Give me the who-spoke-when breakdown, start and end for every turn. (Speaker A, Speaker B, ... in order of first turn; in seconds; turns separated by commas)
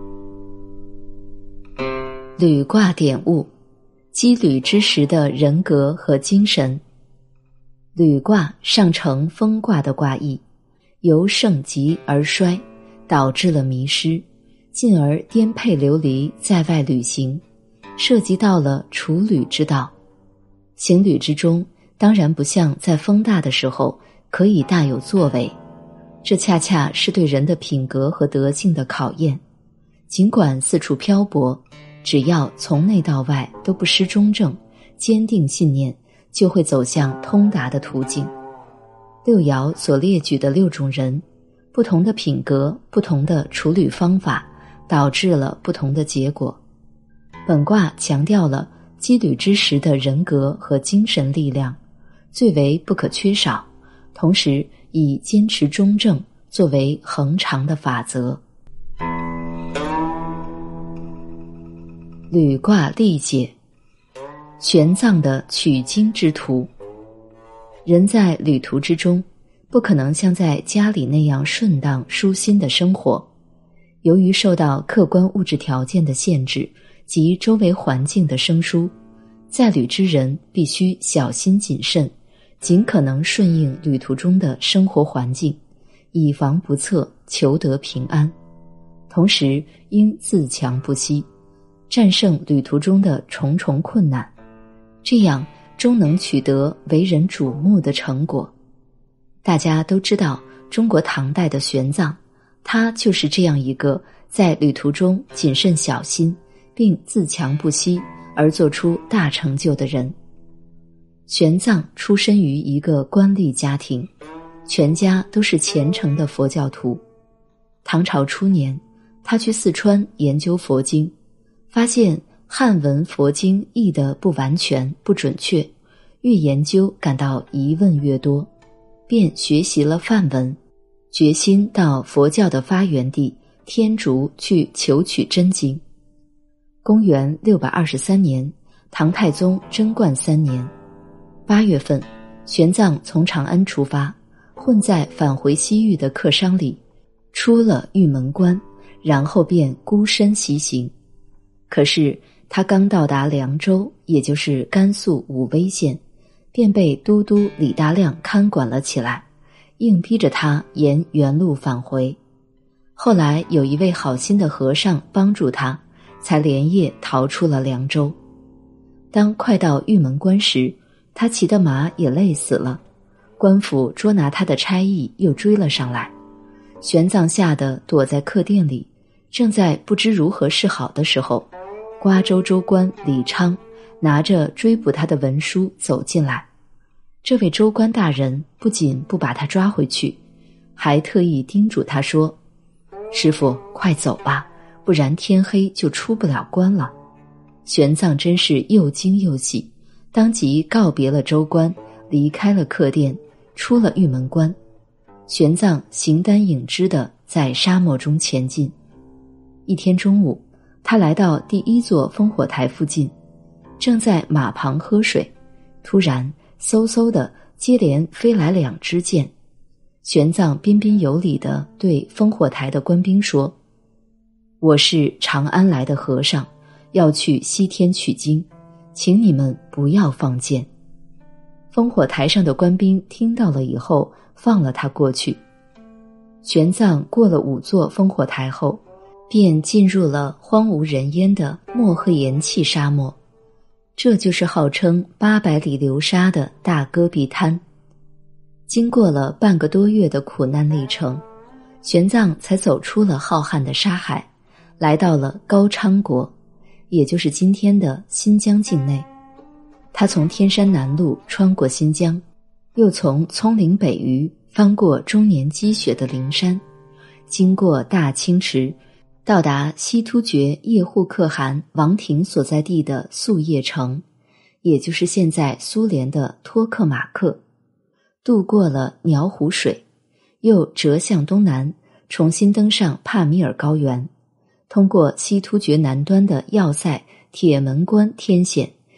Speaker A: 2.4-3.5, Speaker A: 4.1-6.8, Speaker A: 8.0-10.4, Speaker A: 11.0-17.4, Speaker A: 18.0-19.9, Speaker A: 20.8-25.6, Speaker A: 26.2-29.4, Speaker A: 30.1-38.3, Speaker A: 39.2-46.6, Speaker A: 47.5-51.8, Speaker A: 52.3-58.4, Speaker A: 62.3-63.5, Speaker A: 64.6-66.7, Speaker A: 67.8-73.3, Speaker A: 74.0-78.9, Speaker A: 79.5-85.6, Speaker A: 86.1-88.3, Speaker A: 89.1-91.3, Speaker A: 91.9-94.3, Speaker A: 95.0-98.5, Speaker A: 99.4-110.2, Speaker A: 111.3-114.1, Speaker A: 114.7-117.0, Speaker A: 117.8-121.1, Speaker A: 121.7-125.7, Speaker A: 126.2-128.5, Speaker A: 129.1-130.6, Speaker A: 131.1-135.8, Speaker A: 136.8-140.7, Speaker A: 141.5-146.8, Speaker A: 147.3-150.9, Speaker A: 151.7-156.0, Speaker A: 156.5-159.2, Speaker A: 159.8-162.2, Speaker A: 163.0-168.2, Speaker A: 169.1-172.8, Speaker A: 173.4-176.1, Speaker A: 176.8-186.5, Speaker A: 187.2-190.2, Speaker A: 190.8-192.4, Speaker A: 193.1-196.9, Speaker A: 197.7-204.6, Speaker A: 205.3-208.7, Speaker A: 209.7-213.1, Speaker A: 213.8-215.3, Speaker A: 215.8-219.3, Speaker A: 220.0-223.6, Speaker A: 224.6-230.7, Speaker A: 231.7-235.4, Speaker A: 236.4-243.2, Speaker A: 244.0-247.6, Speaker A: 248.7-251.2, Speaker A: 251.8-256.3, Speaker A: 256.9-259.1, Speaker A: 259.9-262.2, Speaker A: 262.8-266.6, Speaker A: 267.3-274.0, Speaker A: 274.6-277.4, Speaker A: 278.2-279.8, Speaker A: 280.4-284.1, Speaker A: 284.7-288.8